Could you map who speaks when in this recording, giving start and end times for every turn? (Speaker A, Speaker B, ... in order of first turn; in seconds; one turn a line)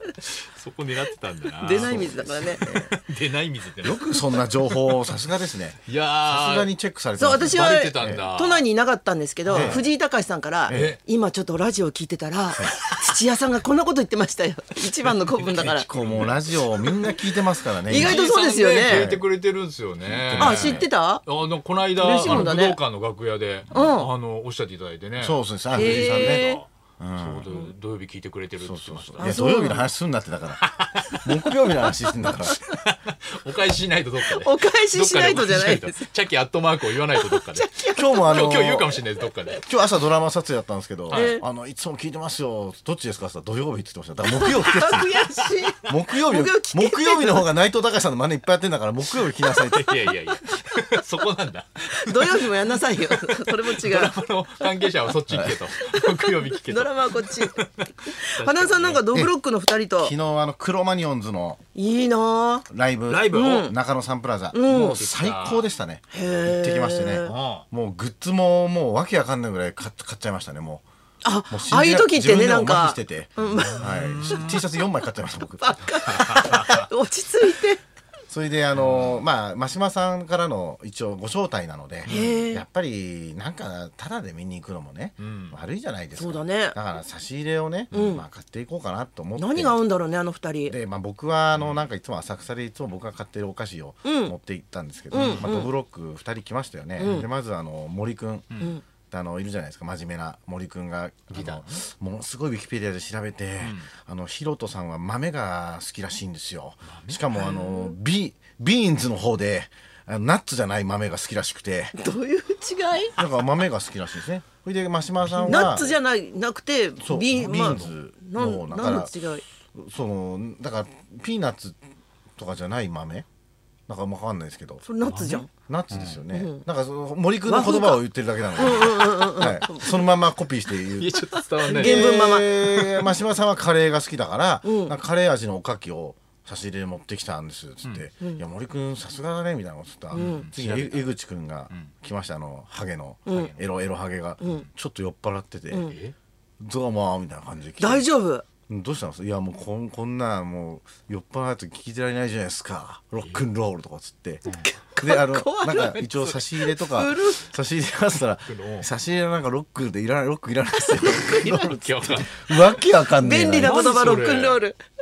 Speaker A: 0.2-5.1
Speaker B: 1.6-2.6
Speaker C: 1.8-2.9
Speaker C: 3.8-8.3
Speaker A: 5.8-6.7
Speaker B: 7.2-15.9
Speaker A: 7.4-8.6
Speaker A: 9.5-9.8
Speaker C: 9.5-9.8
Speaker C: 10.7-11.0
Speaker A: 10.7-11.0
Speaker A: 15.1-17.1
Speaker C: 15.8-18.2
Speaker A: 17.9-29.4
Speaker B: 17.9-19.1
Speaker C: 18.9-19.2
Speaker C: 20.1-20.9
Speaker B: 20.4-21.2
Speaker B: 21.9-22.8
Speaker B: 23.7-24.1
Speaker C: 25.2-27.5
Speaker B: 25.7-26.6
Speaker C: 28.6-30.6
Speaker B: 29.2-29.9
Speaker A: 30.6-37.7
Speaker C: 31.1-32.5
Speaker B: 34.3-36.1
Speaker B: 37.1-38.4
Speaker C: 37.9-39.0
Speaker A: 38.3-39.6
Speaker C: 39.6-45.2
Speaker A: 41.1-41.4
Speaker B: 41.1-41.4
Speaker B: 44.3-47.5
Speaker C: 45.9-49.9
Speaker A: 49.1-59.0
Speaker B: 52.0-54.7
Speaker C: 55.3-55.6
Speaker B: 55.8-60.1
Speaker C: 60.0-61.6
Speaker B: 61.7-62.6
Speaker C: 62.7-70.8
Speaker A: 63.1-63.7
Speaker B: 63.3-63.8
Speaker B: 64.5-65.0
Speaker A: 64.8-65.7
Speaker B: 66.1-67.3
Speaker A: 67.2-67.6
Speaker B: 71.2-74.5
Speaker C: 71.5-76.0
Speaker A: 73.5-74.6
Speaker B: 75.6-77.8
Speaker A: 75.9-76.9
Speaker C: 78.3-89.8
Speaker A: 78.7-79.2
Speaker A: 82.1-82.3
Speaker B: 82.1-82.6
Speaker A: 85.2-85.5
Speaker B: 86.2-86.8
Speaker B: 87.9-88.2
Speaker B: 89.3-90.7
Speaker C: 90.7-112.0
Speaker A: 91.5-91.8
Speaker B: 94.0-94.3
Speaker A: 95.1-95.5
Speaker B: 95.1-95.7
Speaker B: 97.0-97.3
Speaker A: 101.3-101.7
Speaker A: 103.6-103.9
Speaker A: 106.8-107.2
Speaker B: 107.3-107.9
Speaker B: 112.0-113.1
Speaker C: 113.2-115.9
Speaker A: 115.2-115.8
Speaker B: 115.5-119.4
Speaker C: 117.0-119.1
Speaker A: 117.4-117.9
Speaker C: 119.7-121.8
Speaker C: 122.4-123.2
Speaker C: 123.9-124.9
Speaker B: 124.8-125.5
Speaker A: 125.0-126.2
Speaker C: 125.5-145.9
Speaker B: 126.3-126.6
Speaker B: 127.5-128.0
Speaker B: 128.6-130.1
Speaker A: 131.0-133.1
Speaker B: 131.6-132.5
Speaker B: 134.6-134.9
Speaker A: 140.1-141.1
Speaker B: 140.1-140.5
Speaker B: 143.3-143.5
Speaker B: 144.4-144.7
Speaker B: 145.7-145.9
Speaker A: 145.9-146.1
Speaker C: 146.6-148.1
Speaker B: 147.8-148.4
Speaker C: 148.7-163.8
Speaker B: 154.5-156.0
Speaker A: 155.7-156.5
Speaker B: 156.8-157.4
Speaker A: 158.5-158.9
Speaker B: 160.8-161.8
Speaker A: 161.5-162.5
Speaker B: 163.2-164.8
Speaker A: 163.6-164.6